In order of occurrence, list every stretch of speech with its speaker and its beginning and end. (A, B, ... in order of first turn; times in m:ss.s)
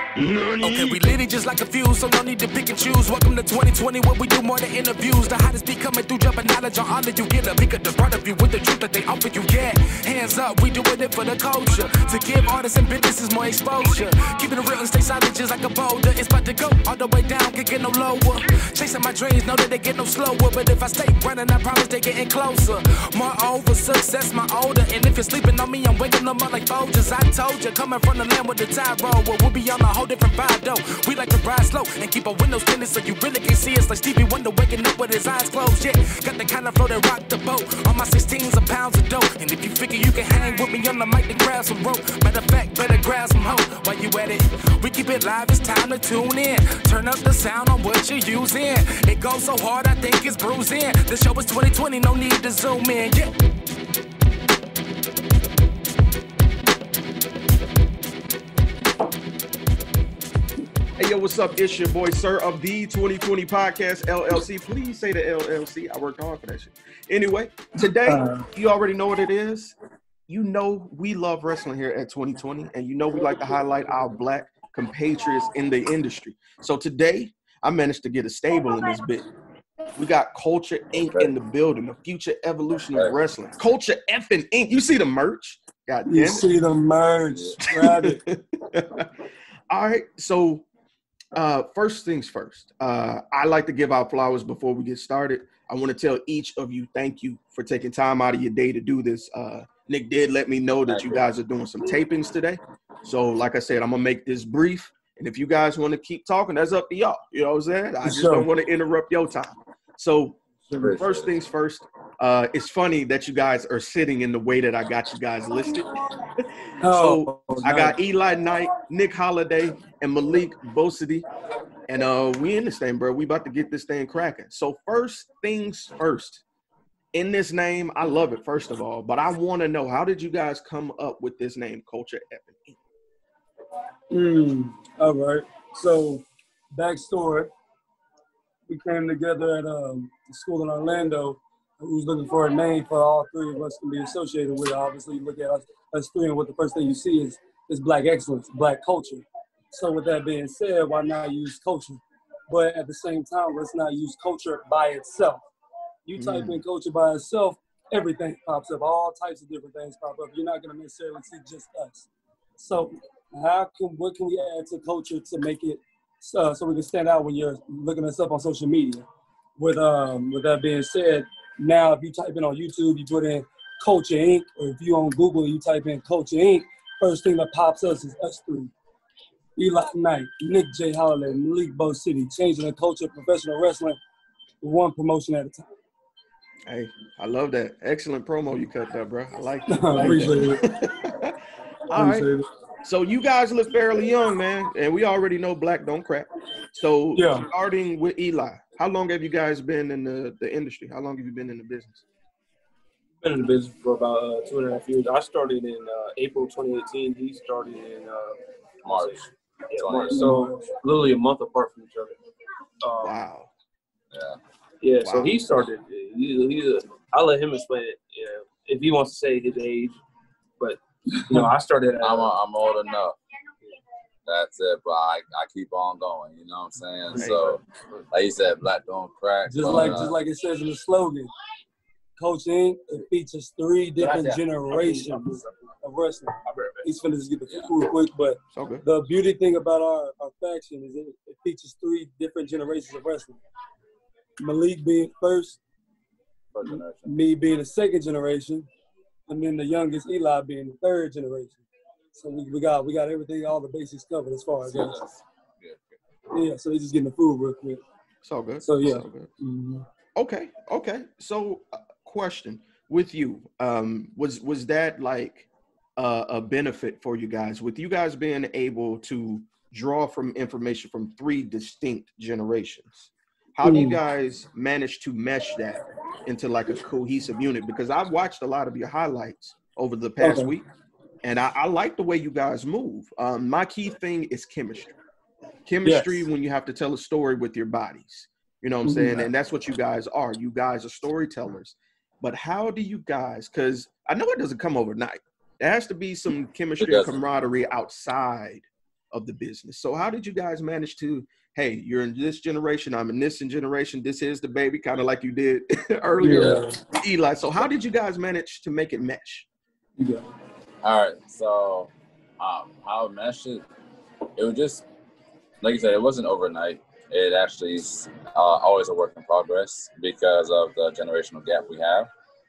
0:00.2-0:01.2 A
0:00.4-0:53.3 B
1:01.0-1:09.8 A
1:08.0-1:08.5 C
1:10.3-1:19.3 A
1:20.0-1:26.5 A
1:26.1-1:28.2 C
1:27.3-1:27.6 D
1:27.6-1:29.1 A
1:29.7-1:30.6 A
1:31.3-2:01.2 A
1:40.9-1:41.3 D
1:48.0-1:48.5 C
1:50.7-1:51.3 D
1:56.8-1:58.0 C
2:01.9-2:06.4 A
2:07.1-2:12.8 A
2:14.1-2:17.5 C
2:18.7-2:35.5 C
2:36.1-2:49.1 C
2:36.2-2:36.6 A
2:49.6-2:58.7 C
2:59.6-3:04.0 C
3:04.6-3:05.7 C
3:06.7-3:12.3 A
3:09.7-3:10.6 C
3:11.9-3:12.5 C
3:12.8-3:22.0 A
3:17.2-3:17.5 C
3:23.2-3:28.4 E
3:28.8-3:30.3 D
3:28.9-3:32.2 E
3:30.1-3:30.5 C
3:32.8-3:33.1 E
3:33.0-3:33.5 A
3:34.1-3:34.4 D
3:34.8-3:40.0 E
3:35.0-3:35.4 A
3:40.6-3:42.3 E
3:42.0-3:43.2 D
3:44.3-3:47.6 D
3:47.1-3:47.5 A
3:48.1-3:50.2 D
3:49.5-3:51.3 C
3:52.2-4:03.4 C
3:54.0-3:55.6 E
3:56.5-3:56.9 E
3:58.5-3:58.8 A
4:04.4-4:05.6 C
4:06.5-4:07.1 D
4:06.7-4:08.7 C
4:09.3-4:15.0 C
4:14.6-4:16.0 D
4:16.3-4:17.8 C
4:18.2-4:19.3 A
4:18.6-4:19.8 C
4:20.2-4:40.7 A
4:33.6-4:34.0 C
4:40.2-4:40.5 C
4:41.2-4:44.9 A
4:45.7-5:09.5 A
4:45.8-4:46.3 C
4:48.9-4:49.2 C
4:56.8-4:57.2 D
5:06.2-5:06.8 C
5:06.3-5:06.6 D
5:10.0-5:10.2 C
5:10.8-5:13.6 D
5:14.4-5:14.8 D
5:15.6-5:22.1 D